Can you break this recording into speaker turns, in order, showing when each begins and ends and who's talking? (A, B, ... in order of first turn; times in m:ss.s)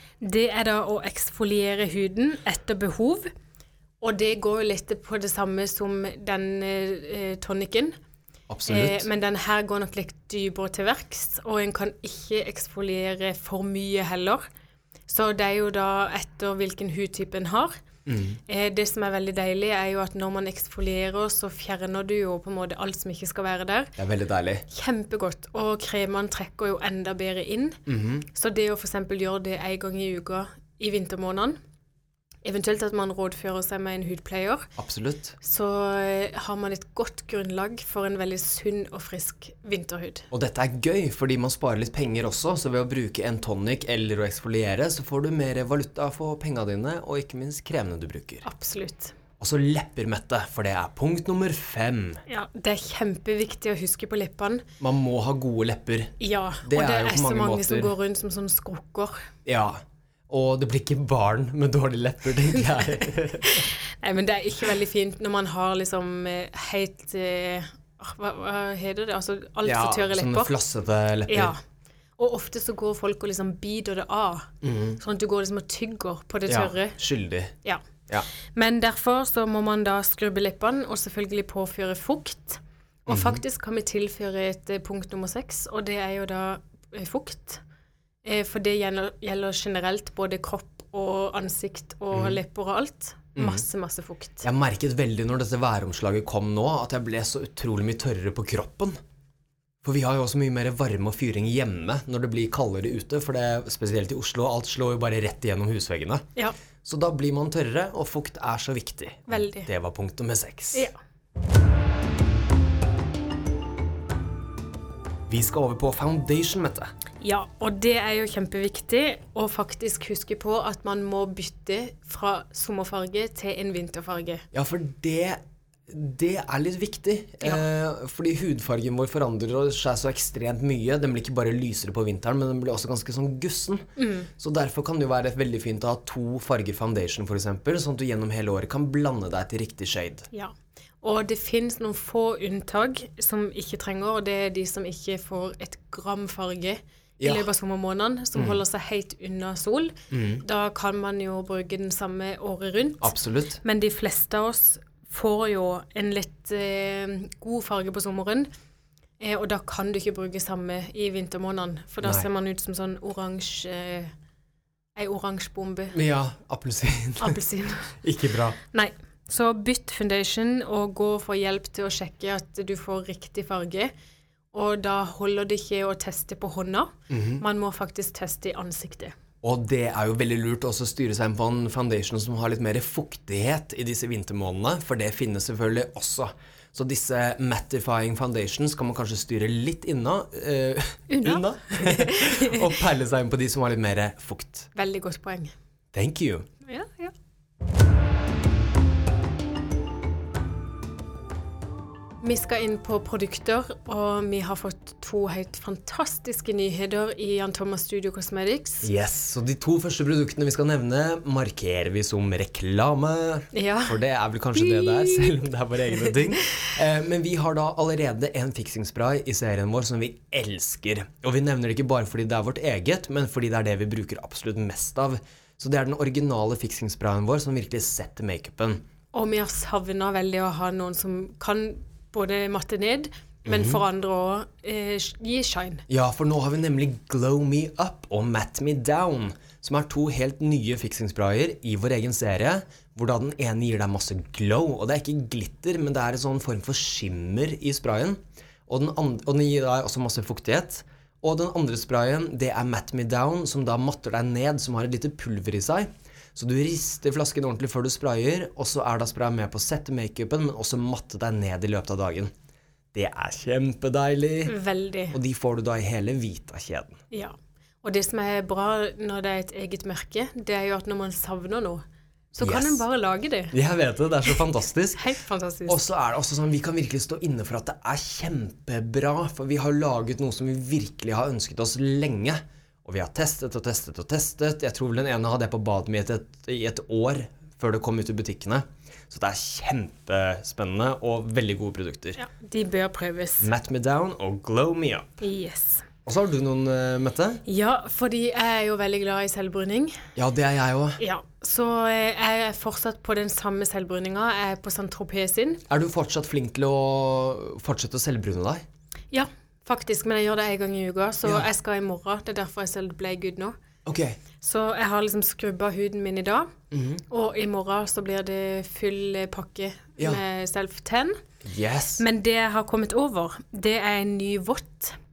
0:00.2-0:03.3 A
0:04.0-0:07.9 A
0:08.5-0:09.1 B
0:08.7-0:14.4 A
0:15.1-0:17.7 A
0:18.0-0:18.4 B
0:18.5-0:23.9 A
0:24.0-0:24.6 B
0:24.7-0:31.6 A
0:27.9-0:28.3 B
0:32.4-0:34.7 A
0:34.8-0:35.4 B
0:35.4-0:40.3 A
0:40.3-0:48.4 B
0:48.4-0:49.1 A
0:49.4-0:52.2 B
0:52.3-0:54.6 A
0:54.8-0:57.9 B
0:56.2-0:59.2 A
0:59.4-1:03.7 B
1:02.6-1:10.5 A
1:09.6-1:11.5 B
1:11.3-1:11.6 A
1:12.2-1:17.0 A
1:14.6-1:15.0 B
1:16.5-1:17.5 B
1:18.5-1:27.6 A
1:23.1-1:23.4 B
1:28.2-1:34.4 A
1:32.1-1:32.4 B
1:33.4-1:33.6 B
1:34.4-1:39.0 B
1:39.8-1:46.2 B
1:46.8-1:50.9 B
1:49.3-1:49.7 A
1:55.3-1:56.9 B
1:57.2-2:04.4 A
2:04.5-2:13.9 B
2:14.0-2:14.3 A
2:14.4-2:20.3 B
2:20.3-2:38.5 A
2:27.2-2:27.5 B
2:30.1-2:30.4 B
2:33.0-2:33.6 B
2:39.2-2:44.1 A
2:45.0-2:46.0 A
2:45.9-2:47.4 B
2:47.2-2:48.0 A
2:48.0-2:48.6 B
2:48.7-2:53.9 A
2:54.5-2:59.1 A
2:57.1-2:57.4 B
2:59.4-3:14.7 B
3:11.1-3:12.8 A
3:14.7-3:15.5 A
3:15.9-3:16.5 B
3:16.6-3:17.1 A
3:22.2-3:28.9 A
3:28.8-3:48.8 B
3:33.5-3:34.0 A
3:34.5-3:36.4 A
3:49.1-3:55.8 A
3:53.4-3:53.8 B
3:55.9-4:22.3 B
4:22.9-4:24.6 B
4:24.4-4:25.2 A
4:25.1-4:27.0 B
4:27.1-4:31.8 A
4:32.3-4:33.5 A
4:32.4-4:32.8 B
4:33.5-4:35.1 B
4:35.0-4:35.8 A
4:35.7-4:52.2 B
4:52.2-4:53.5 A
4:53.4-4:55.2 B
4:55.2-4:55.8 A
4:56.0-4:57.4 B
4:57.4-5:00.0 A
5:00.2-5:01.0 B
5:01.0-5:05.6 A
5:05.7-5:08.6 B
5:09.1-5:13.5 A
5:13.8-5:14.2 B
5:14.4-5:16.5 A
5:16.7-5:17.0 B
5:17.1-5:21.2 A
5:21.4-5:22.0 B
5:22.0-5:25.0 A